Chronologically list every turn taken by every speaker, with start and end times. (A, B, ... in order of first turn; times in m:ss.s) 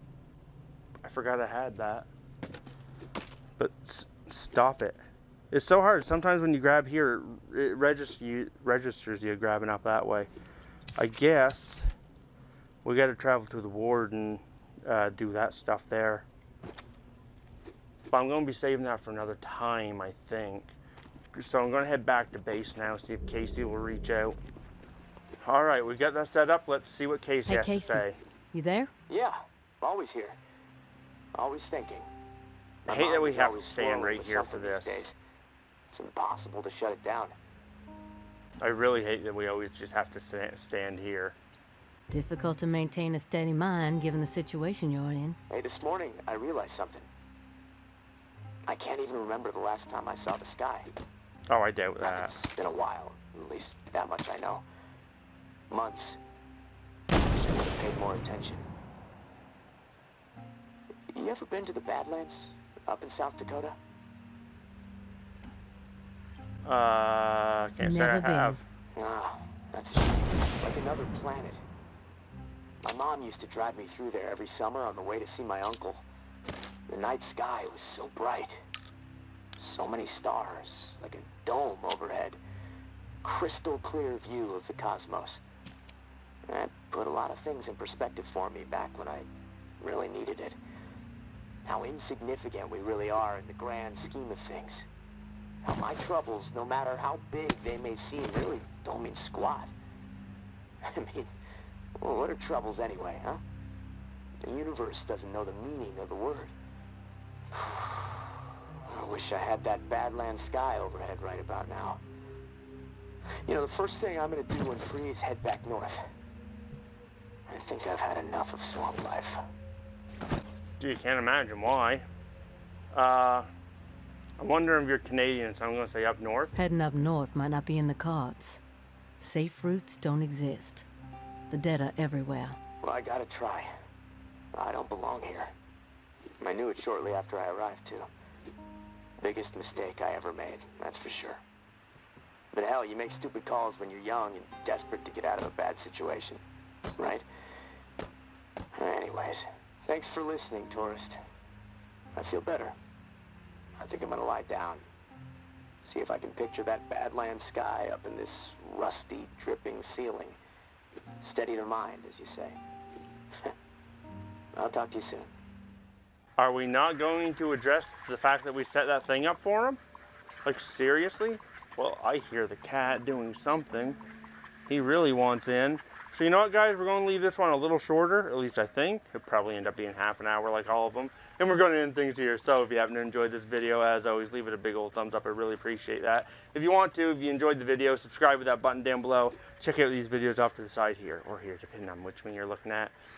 0:01.0-0:02.1 A
0:03.6-0:05.0 A
0:05.5-0:10.3 A
0:11.0-0:11.9 A
0:12.8-0:16.2 A
0:18.1-0:20.8 A
0:21.3-0:24.4 A
0:25.4-0:28.2 A
0:27.5-0:28.9 B
0:29.1-0:30.4 C
0:31.4-0:32.1 C
0:32.8-0:35.0 A
0:32.8-0:35.1 C
0:35.9-0:37.4 C
0:38.6-0:41.4 A
0:42.1-0:45.4 B
0:45.5-0:47.1 C
0:48.7-0:50.9 C
0:51.5-0:52.3 A
0:52.0-0:54.6 C
0:55.7-0:56.2 C
0:57.3-0:58.6 C
1:01.1-1:03.8 C
1:06.6-1:08.7 A
1:07.8-1:08.6 B
1:09.0-1:11.6 C
1:12.8-1:16.0 C
1:16.9-1:18.6 C
1:19.6-1:22.4 C
1:23.2-1:25.4 C
1:26.5-1:29.3 C
1:29.8-1:30.6 C
1:31.6-1:34.9 C
1:35.6-1:39.7 C
1:40.8-1:41.3 C
1:42.0-1:43.4 C
1:44.4-1:46.5 C
1:47.5-1:48.3 C
1:48.8-1:52.0 C
1:53.4-1:56.0 C
1:57.5-1:59.4 C
2:00.8-2:02.1 A
2:02.9-2:03.5 A
2:04.4-2:06.5 A
2:06.5-2:08.6 B
2:09.2-2:10.8 B
2:11.5-2:12.6 B
2:12.8-2:13.7 C
2:14.5-2:15.5 C
2:16.4-2:18.1 C
2:19.2-2:21.4 C
2:22.5-2:26.4 C
2:27.0-2:27.2 C
2:28.8-2:31.2 C
2:32.1-2:32.7 C
2:33.8-2:34.8 C
2:35.8-2:40.4 C
2:41.2-2:42.6 C
2:44.6-2:45.3 C
2:46.4-2:49.8 A
2:50.4-2:54.0 A
2:54.7-3:12.9 A